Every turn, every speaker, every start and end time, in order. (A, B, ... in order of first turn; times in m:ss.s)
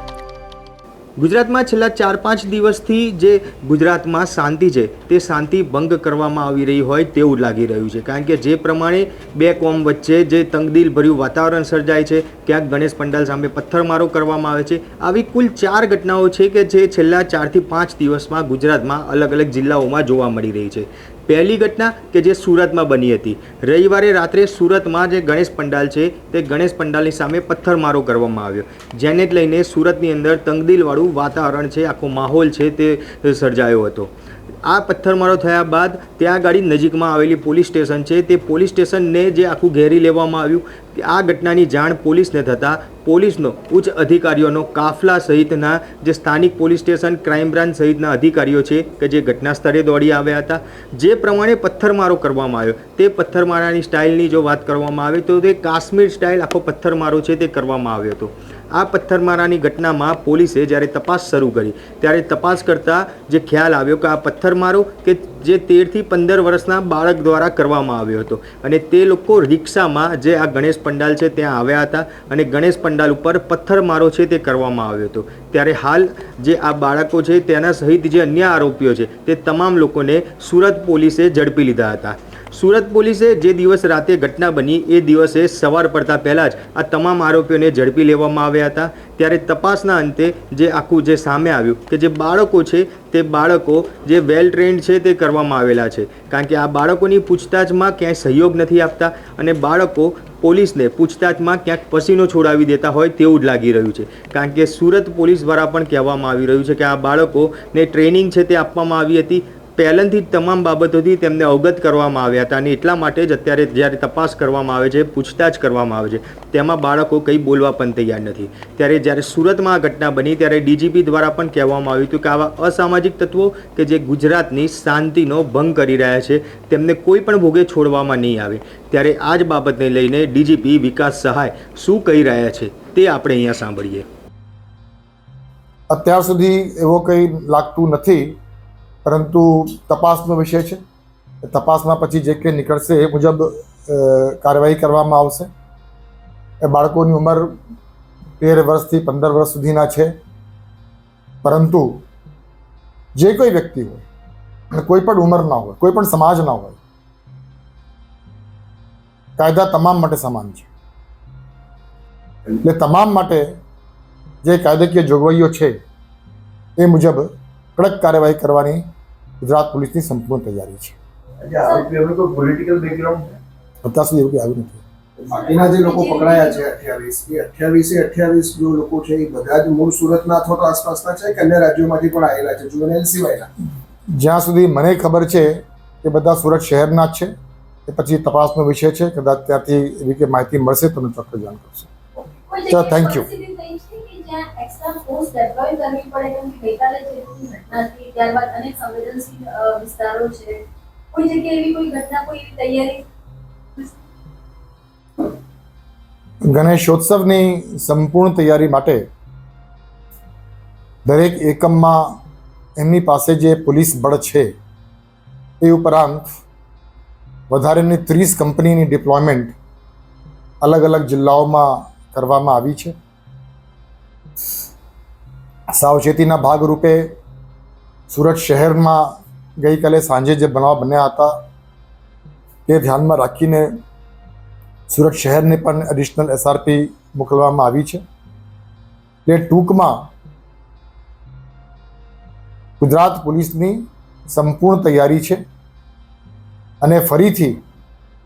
0:01.2-0:34.1 A
0:34.6-2:14.0 A
2:15.9-2:18.4 B
2:19.0-2:20.8 B
2:21.4-2:25.5 B
2:26.6-2:27.6 B
2:28.4-2:30.1 B
2:31.4-2:32.0 B
2:33.2-2:34.0 B
2:34.7-2:36.8 B
2:39.4-2:40.7 B
2:42.6-2:43.4 B
2:44.4-2:45.8 B
2:46.8-2:48.8 B
2:49.4-2:51.0 B
2:51.4-2:53.4 C
2:51.6-2:51.9 D
2:53.8-2:54.8 B
2:55.2-3:03.5 C
2:55.4-2:56.7 D
3:04.2-3:07.3 B
3:07.9-3:11.9 B
3:12.5-3:20.6 D
3:12.7-3:13.3 B
3:21.1-3:23.0 D
3:26.5-3:29.0 B
3:31.1-3:32.0 B
3:32.8-3:34.5 B
3:35.6-3:36.3 B
3:37.5-3:39.5 B
3:40.6-3:43.0 B
3:45.8-3:47.1 B
3:48.1-3:51.4 B
3:52.7-3:53.7 B
3:54.9-3:58.0 B
3:59.3-4:00.1 B
4:02.8-4:05.4 B
4:06.8-4:07.6 B